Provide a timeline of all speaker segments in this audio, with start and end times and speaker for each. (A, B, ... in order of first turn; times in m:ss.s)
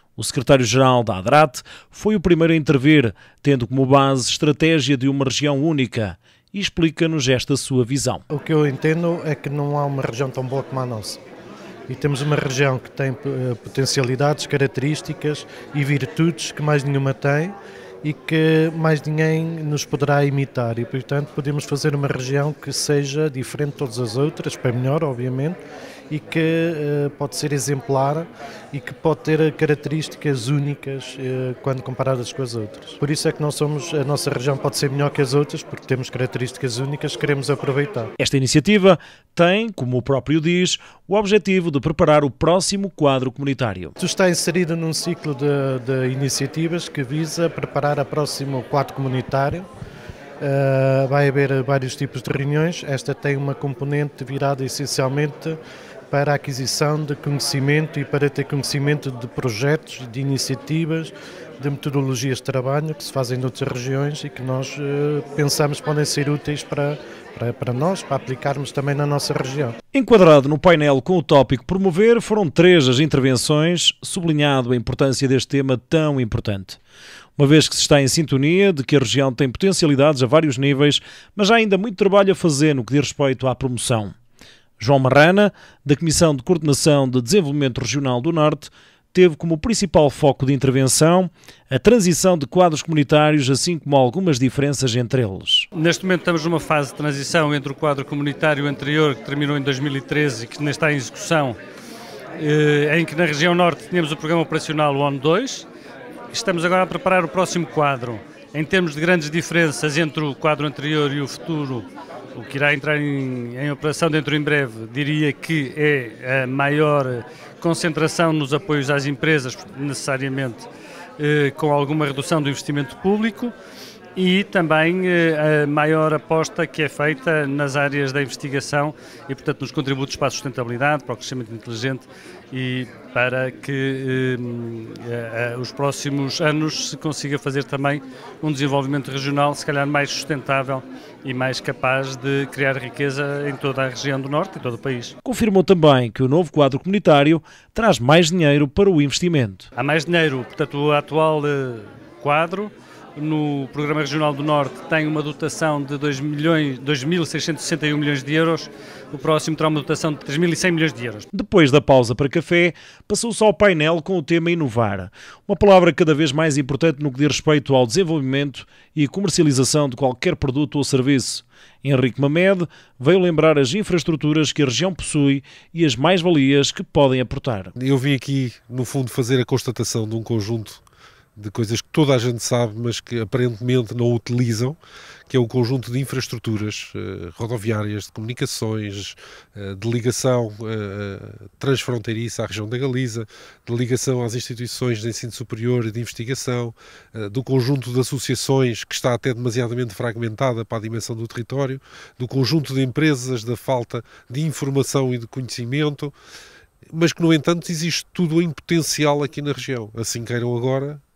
0:00.2-0:08.2 A
0:08.3-0:11.2 B
0:11.9-0:38.1 B
0:38.2-0:43.9 A
0:44.0-0:49.7 B
0:50.4-0:55.6 B
0:56.1-1:09.8 B
1:09.9-1:16.8 A
1:17.4-1:24.1 A
1:24.8-1:35.7 A
1:35.7-1:41.6 C
1:42.4-1:45.7 C
1:46.3-2:00.7 C
2:01.2-2:03.5 C
2:04.2-2:25.2 C
2:25.2-2:29.7 A
2:29.8-2:41.3 C
2:41.3-2:57.7 A
2:57.8-3:00.8 D
3:01.4-3:04.8 D
3:05.3-3:26.2 D
3:26.9-3:31.0 D